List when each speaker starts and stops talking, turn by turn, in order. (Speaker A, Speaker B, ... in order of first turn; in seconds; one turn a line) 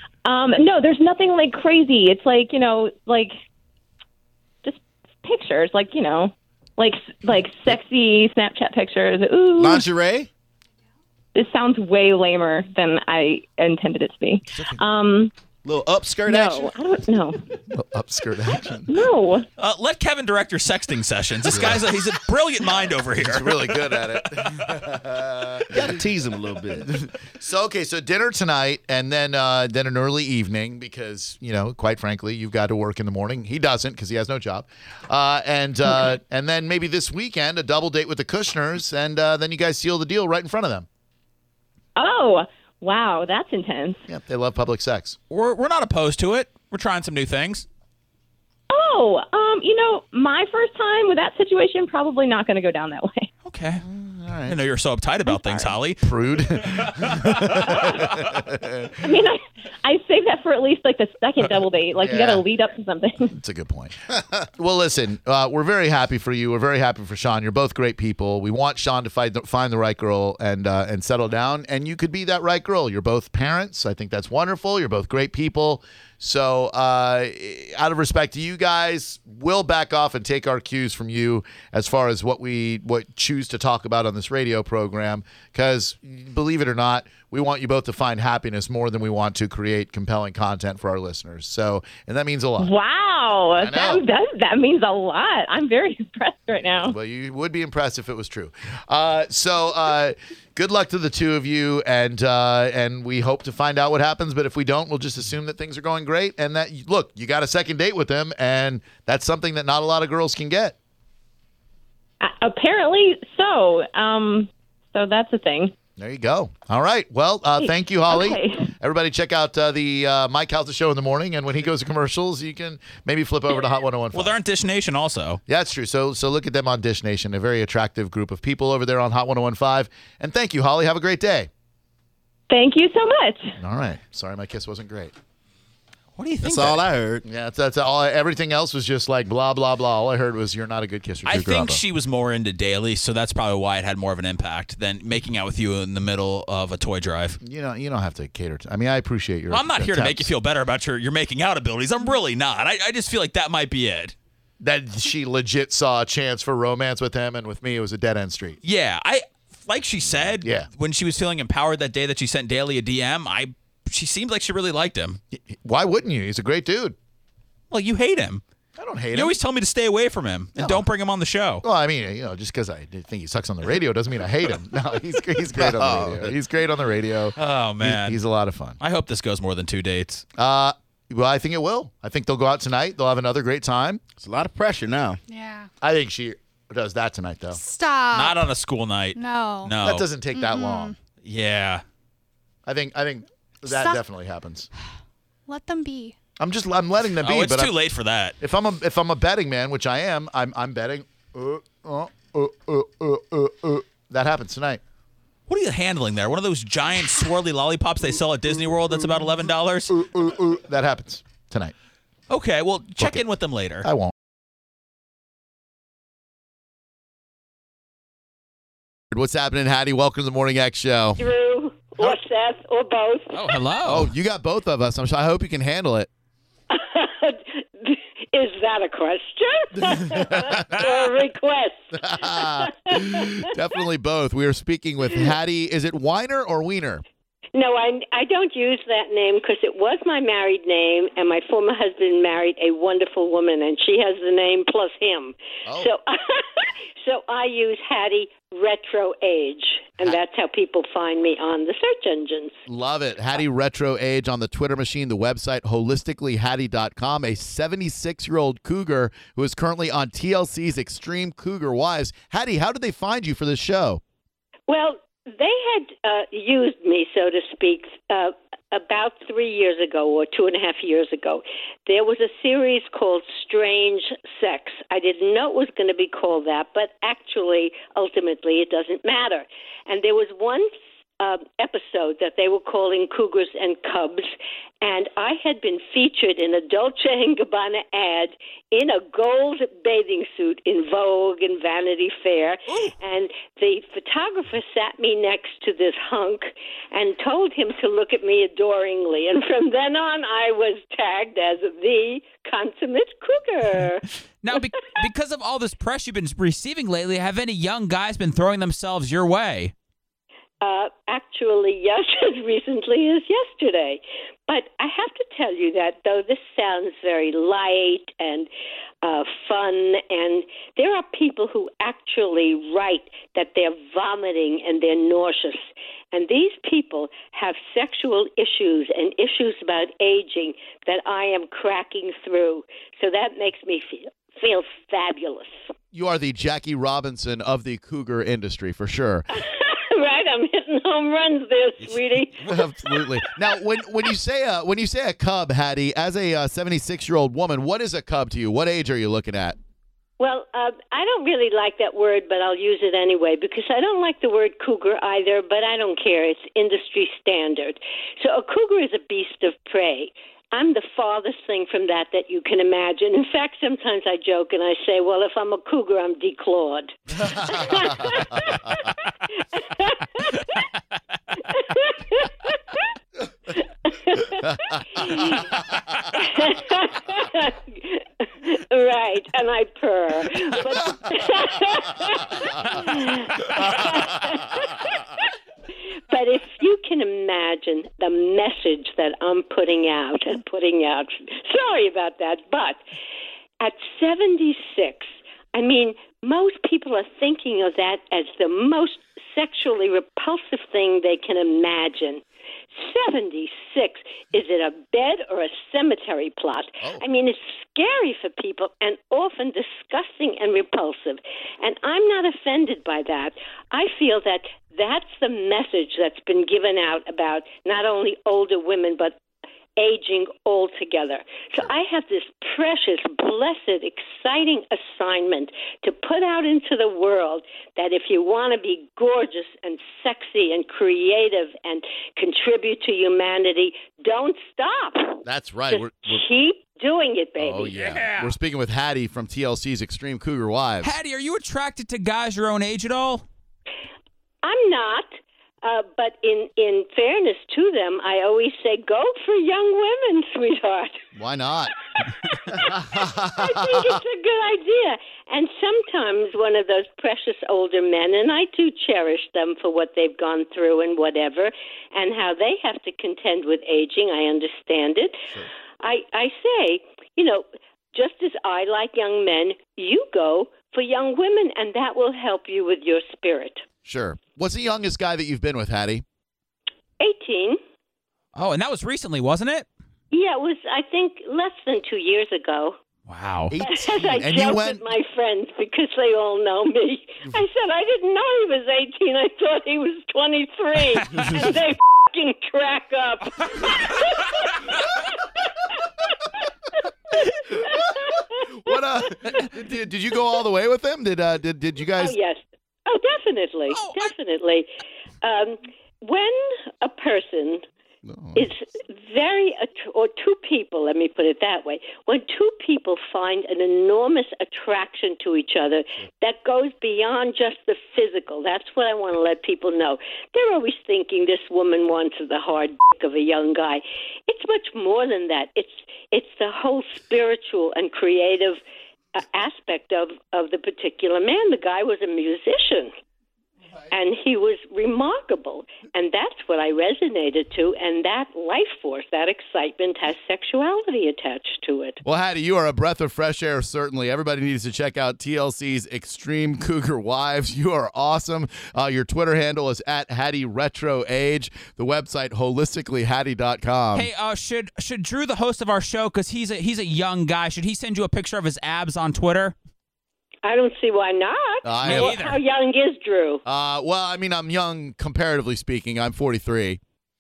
Speaker A: 0.2-3.3
Speaker A: 4.6-9.8
Speaker B: 9.6-10.3
Speaker A: 11.3-15.3
Speaker C: 14.5-14.8
Speaker B: 15.6-16.7
Speaker A: 16.3-17.4
Speaker C: 17.7-19.0
Speaker A: 18.9-19.5
Speaker D: 19.6-23.6
Speaker C: 21.5-22.1
Speaker C: 23.2-26.0
Speaker B: 25.6-27.0
Speaker C: 26.8-40.9
Speaker A: 42.0-44.0
Speaker C: 44.1-45.2
Speaker D: 45.3-47.7
Speaker A: 48.7-53.3
Speaker D: 53.5-53.9
Speaker C: 53.8-54.6
Speaker D: 54.5-57.7
Speaker A: 55.4-55.7
Speaker C: 56.0-59.0
Speaker A: 57.6-58.0
Speaker A: 59.0-63.4
Speaker C: 62.0-62.4
Speaker C: 63.3-64.0
Speaker B: 64.1-64.5
Speaker C: 64.5-92.7
Speaker A: 92.6-97.0
Speaker C: 93.6-94.0
Speaker C: 96.8-110.8
Speaker A: 112.2-115.7
Speaker C: 116.0-124.3
Speaker A: 117.6-118.7
Speaker D: 124.1-125.4
Speaker C: 125.5-131.5
Speaker A: 132.5-133.6
Speaker C: 133.6-135.2
Speaker D: 136.2-136.8
Speaker B: 136.4-137.2
Speaker C: 137.2-141.8
Speaker D: 141.3-147.4
Speaker C: 147.4-150.3
Speaker D: 149.5-154.2
Speaker C: 154.6-158.6
Speaker D: 158.6-165.2
Speaker C: 160.4-160.7
Speaker C: 165.3-167.0
Speaker D: 167.7-168.4
Speaker C: 168.8-169.3
Speaker D: 169.1-171.6
Speaker C: 170.6-170.8
Speaker C: 171.6-178.8
Speaker B: 175.6-176.3
Speaker D: 177.4-178.2
Speaker D: 178.8-180.2
Speaker C: 180.4-184.0
Speaker B: 184.2-185.2
Speaker E: 185.3-185.7
Speaker C: 185.8-187.6
Speaker E: 187.6-188.4
Speaker D: 188.1-190.1
Speaker E: 189.2-189.8
Speaker C: 189.8-190.9
Speaker E: 190.3-191.0
Speaker D: 191.2-191.8
Speaker C: 192.7-194.7
Speaker E: 193.7-194.0
Speaker E: 195.5-196.2
Speaker C: 196.4-197.8
Speaker D: 197.2-198.4
Speaker C: 198.4-204.8
Speaker D: 205.5-210.0
Speaker C: 209.9-211.7
Speaker D: 212.3-213.9
Speaker C: 213.8-214.1
Speaker C: 219.1-221.2
Speaker F: 221.2-223.7
Speaker D: 223.3-224.1
Speaker C: 223.8-226.1
Speaker F: 226.7-233.5
Speaker C: 229.8-230.8
Speaker C: 231.9-237.0
Speaker F: 237.5-252.6
Speaker C: 245.7-245.9
Speaker C: 252.7-264.0
Speaker F: 264.7-304.1
Speaker D: 304.4-309.7
Speaker F: 310.6-318.5
Speaker F: 319.0-335.6
Speaker C: 335.9-339.3
Speaker F: 339.3-343.1
Speaker C: 342.4-349.6
Speaker F: 350.2-370.6
Speaker F: 371.4-372.9
Speaker F: 373.5-385.3
Speaker C: 375.0-375.4
Speaker F: 386.1-392.8
Speaker F: 393.6-419.2
Speaker F: 419.8-438.0
Speaker C: 435.2-436.2
Speaker C: 437.4-441.0
Speaker D: 437.8-438.3
Speaker D: 440.8-443.2
Speaker F: 444.4-451.0
Speaker C: 451.2-451.7
Speaker F: 451.9-465.3
Speaker C: 452.5-454.0
Speaker F: 465.8-473.6
Speaker C: 473.9-476.0
Speaker F: 477.0-477.6
Speaker D: 478.3-479.7
Speaker F: 480.1-482.8
Speaker D: 483.1-483.6
Speaker C: 483.5-484.8
Speaker F: 483.6-499.5
Speaker C: 497.5-498.1
Speaker C: 498.6-502.2
Speaker F: 502.0-504.7
Speaker D: 503.7-504.1
Speaker F: 505.2-507.7
Speaker C: 508.1-508.5
Speaker F: 508.4-528.6
Speaker F: 529.1-532.9
Speaker F: 533.9-542.0
Speaker C: 542.0-554.1
Speaker D: 554.0-559.5
Speaker F: 560.4-563.4
Speaker C: 561.6-562.3
Speaker D: 561.9-562.4
Speaker C: 563.5-566.8